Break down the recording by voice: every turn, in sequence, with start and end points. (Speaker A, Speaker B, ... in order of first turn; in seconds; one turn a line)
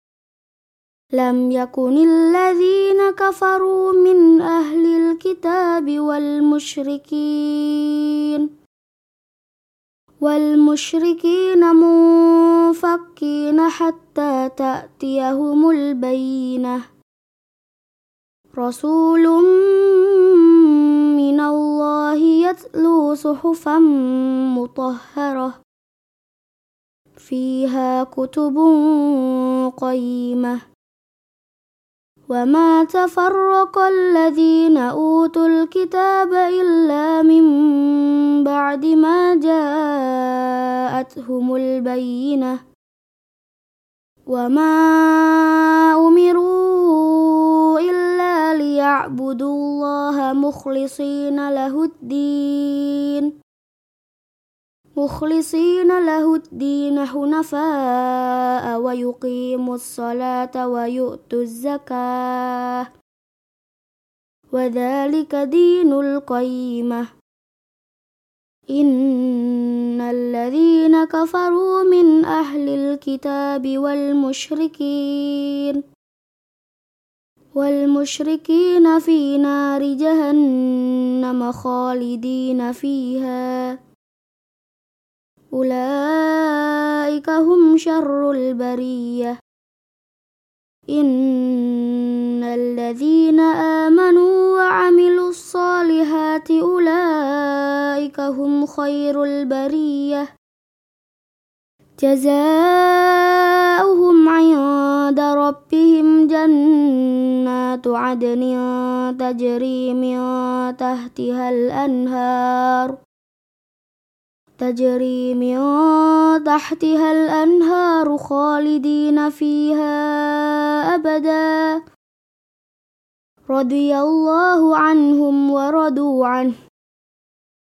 Speaker A: 1.1-8.5
Speaker A: 10.2-16.8
Speaker A: 18.5-25.6
Speaker A: 27.2-30.6
Speaker A: 32.3-42.6
Speaker A: 44.3-53.3
Speaker A: 55.0-62.9
Speaker A: 64.5-67.1
Speaker A: 68.7-75.8
Speaker A: 77.5-83.8
Speaker A: 85.5-89.4
Speaker A: 90.9-100.3
Speaker A: 102.0-113.0
Speaker A: 114.6-121.8
Speaker A: 123.5-126.5